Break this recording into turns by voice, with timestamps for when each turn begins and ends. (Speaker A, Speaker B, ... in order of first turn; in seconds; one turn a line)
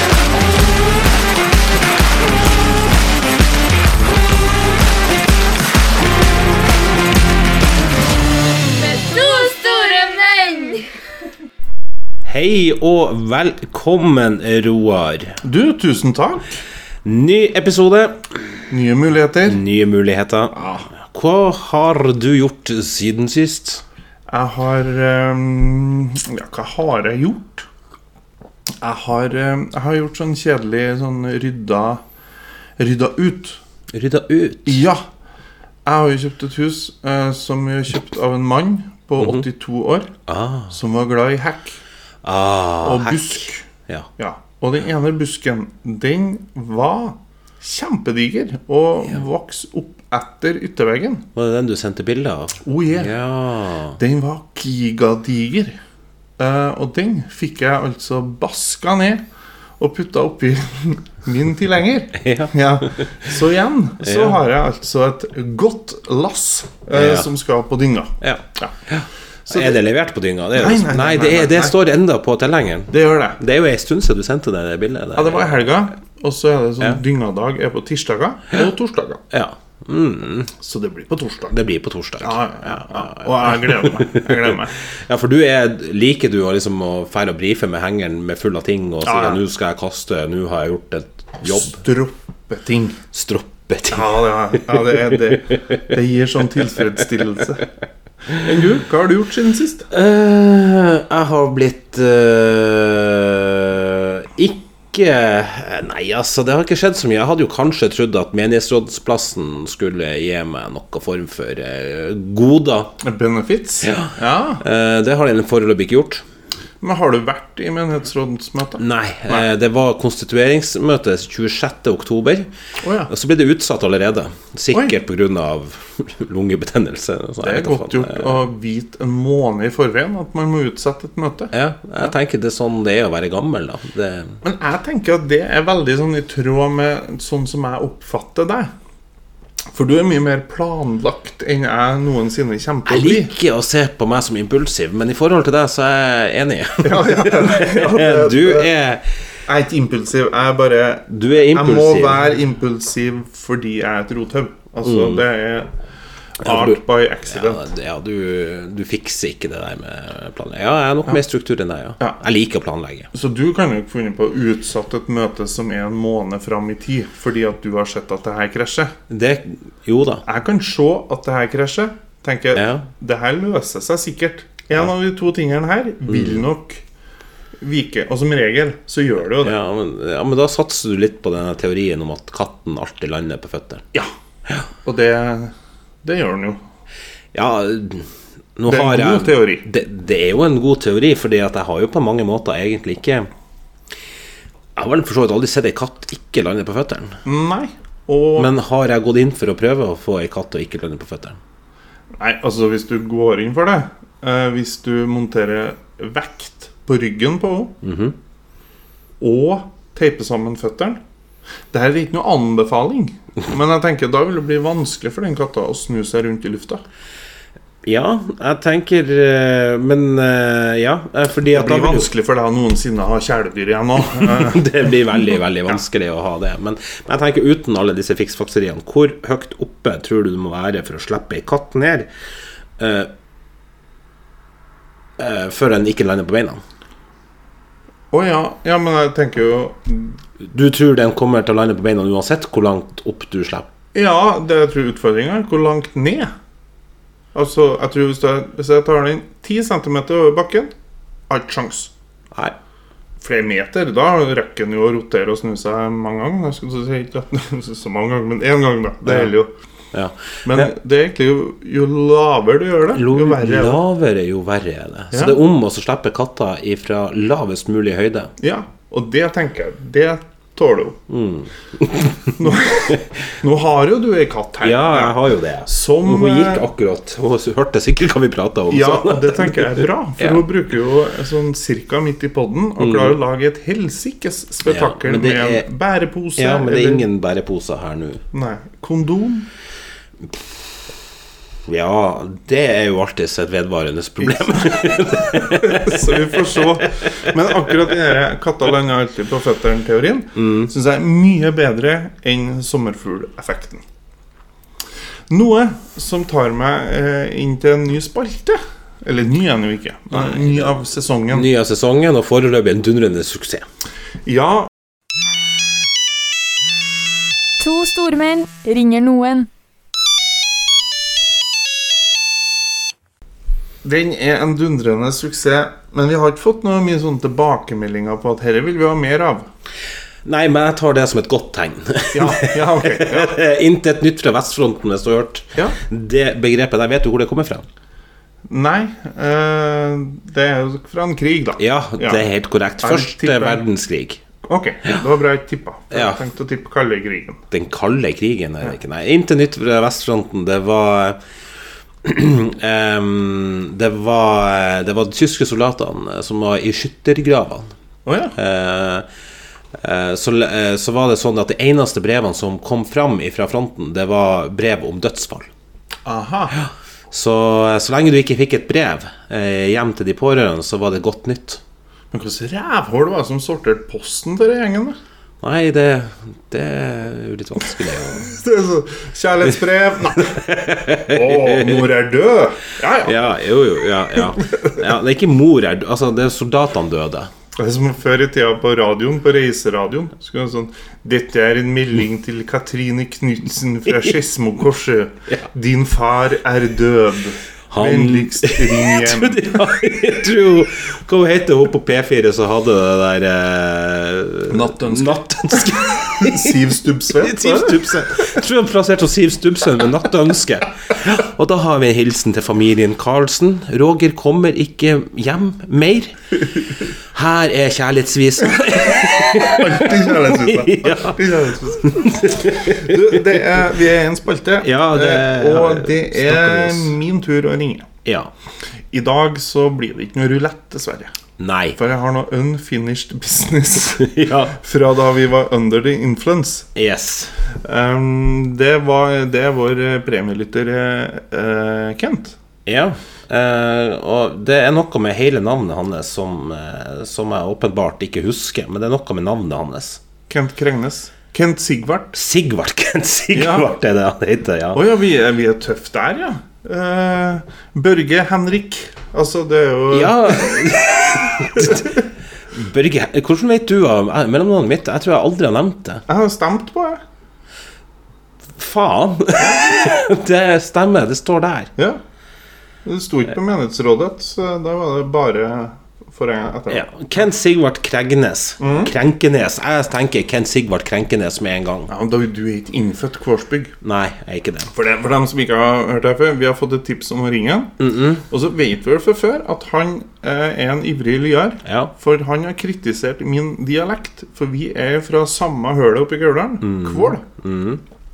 Speaker A: 8.7-10.9
Speaker B: 12.2-15.4
Speaker C: 15.4-16.6
Speaker B: 17.0-18.6
Speaker C: 18.7-19.6
Speaker B: 19.5-23.8
Speaker C: 24.3-27.7
Speaker C: 28.8-32.0
Speaker C: 32.8-33.6
Speaker B: 33.9-34.8
Speaker C: 34.7-35.0
Speaker C: 35.9-40.1
Speaker B: 39.2-39.5
Speaker B: 40.3-40.8
Speaker C: 40.7-41.8
Speaker B: 42.2-44.1
Speaker C: 42.8-43.7
Speaker C: 44.2-51.3
Speaker B: 51.4-54.0
Speaker C: 52.6-53.1
Speaker C: 54.0-55.8
Speaker C: 56.4-59.2
Speaker C: 59.8-68.8
Speaker B: 62.2-63.2
Speaker B: 64.0-64.4
Speaker B: 66.9-67.3
Speaker B: 68.2-75.8
Speaker C: 69.5-69.8
Speaker C: 70.5-71.8
Speaker C: 72.9-73.4
Speaker C: 75.2-79.2
Speaker B: 79.3-80.5
Speaker C: 80.6-81.5
Speaker B: 81.4-91.8
Speaker C: 82.2-84.8
Speaker C: 89.0-89.4
Speaker C: 91.4-93.0
Speaker B: 93.1-94.1
Speaker C: 93.9-97.7
Speaker B: 94.7-95.8
Speaker C: 98.3-99.9
Speaker B: 99.9-112.9
Speaker C: 113.0-114.6
Speaker B: 113.8-116.2
Speaker C: 116.8-119.5
Speaker B: 118.8-122.5
Speaker C: 122.8-123.1
Speaker B: 123.1-128.4
Speaker C: 127.4-132.1
Speaker B: 131.5-134.4
Speaker C: 134.4-138.7
Speaker C: 139.7-143.3
Speaker B: 142.9-149.0
Speaker C: 146.8-148.7
Speaker C: 149.5-155.7
Speaker B: 151.1-152.2
Speaker B: 154.8-155.2
Speaker C: 156.4-157.7
Speaker B: 156.4-163.1
Speaker C: 163.1-168.9
Speaker B: 169.1-170.2
Speaker C: 170.2-176.8
Speaker B: 172.6-172.9
Speaker B: 176.1-176.4
Speaker C: 177.6-179.6
Speaker B: 179.4-183.9
Speaker C: 184.8-186.6
Speaker B: 187.3-193.3
Speaker C: 188.7-189.7
Speaker B: 194.8-197.2
Speaker C: 197.2-198.5
Speaker B: 198.4-201.4
Speaker C: 202.1-207.8
Speaker B: 207.8-208.2
Speaker C: 209.2-211.0
Speaker C: 211.7-216.8
Speaker B: 217.8-222.1
Speaker C: 221.5-225.8
Speaker B: 224.1-232.1
Speaker B: 232.8-233.1
Speaker B: 235.2-236.6
Speaker C: 238.1-240.2
Speaker B: 240.4-243.7
Speaker C: 243.9-246.3
Speaker C: 247.3-250.7
Speaker C: 251.3-251.9
Speaker C: 253.2-259.5
Speaker B: 259.1-259.3
Speaker B: 259.9-260.7
Speaker C: 260.5-263.8
Speaker B: 262.9-268.3
Speaker C: 265.1-265.4
Speaker C: 268.4-271.0
Speaker B: 271.1-273.2
Speaker C: 272.4-276.7
Speaker B: 274.6-280.4
Speaker C: 278.7-287.1
Speaker B: 282.8-283.2
Speaker B: 284.7-285.7
Speaker B: 286.4-288.2
Speaker C: 288.3-289.5
Speaker B: 291.7-297.3
Speaker C: 294.2-303.8
Speaker B: 300.4-300.7
Speaker C: 305.3-311.5
Speaker B: 310.1-310.7
Speaker B: 311.3-313.7
Speaker C: 314.2-314.7
Speaker A: 317.6-319.5
Speaker C: 323.8-329.5
Speaker B: 330.2-337.7
Speaker C: 332.1-333.4
Speaker C: 338.5-342.2
Speaker B: 341.6-344.2
Speaker C: 342.8-343.6
Speaker C: 344.4-347.4
Speaker B: 345.9-346.2
Speaker B: 347.5-351.2
Speaker B: 352.0-357.7
Speaker C: 358.1-358.4
Speaker B: 358.4-359.1
Speaker B: 359.8-365.5
Speaker C: 366.1-366.5
Speaker B: 366.6-371.6
Speaker C: 372.1-375.0
Speaker B: 375.4-378.3
Speaker C: 378.1-380.4
Speaker B: 380.3-381.9
Speaker C: 381.0-383.3
Speaker B: 383.0-387.3
Speaker C: 384.3-384.8
Speaker C: 387.6-399.6
Speaker B: 397.7-406.6
Speaker C: 404.5-407.9
Speaker B: 407.2-416.1
Speaker B: 417.1-421.2
Speaker C: 418.9-427.9
Speaker B: 421.8-423.2
Speaker B: 424.6-426.9
Speaker B: 428.1-428.3
Speaker C: 428.9-431.1
Speaker B: 431.4-431.8
Speaker C: 431.8-436.7
Speaker B: 434.0-434.6
Speaker B: 436.8-437.3
Speaker C: 437.6-442.4
Speaker B: 442.7-450.0
Speaker C: 450.3-452.2
Speaker B: 452.1-454.8
Speaker C: 453.3-453.7
Speaker C: 454.7-461.9
Speaker B: 459.9-466.1
Speaker C: 466.1-467.0
Speaker B: 468.6-471.7
Speaker C: 469.4-469.9
Speaker C: 472.9-476.9
Speaker B: 476.7-481.9
Speaker C: 478.6-478.9
Speaker C: 481.9-483.7
Speaker B: 483.8-484.7
Speaker C: 484.7-497.2
Speaker B: 487.8-488.2
Speaker B: 491.6-491.9
Speaker B: 496.6-497.8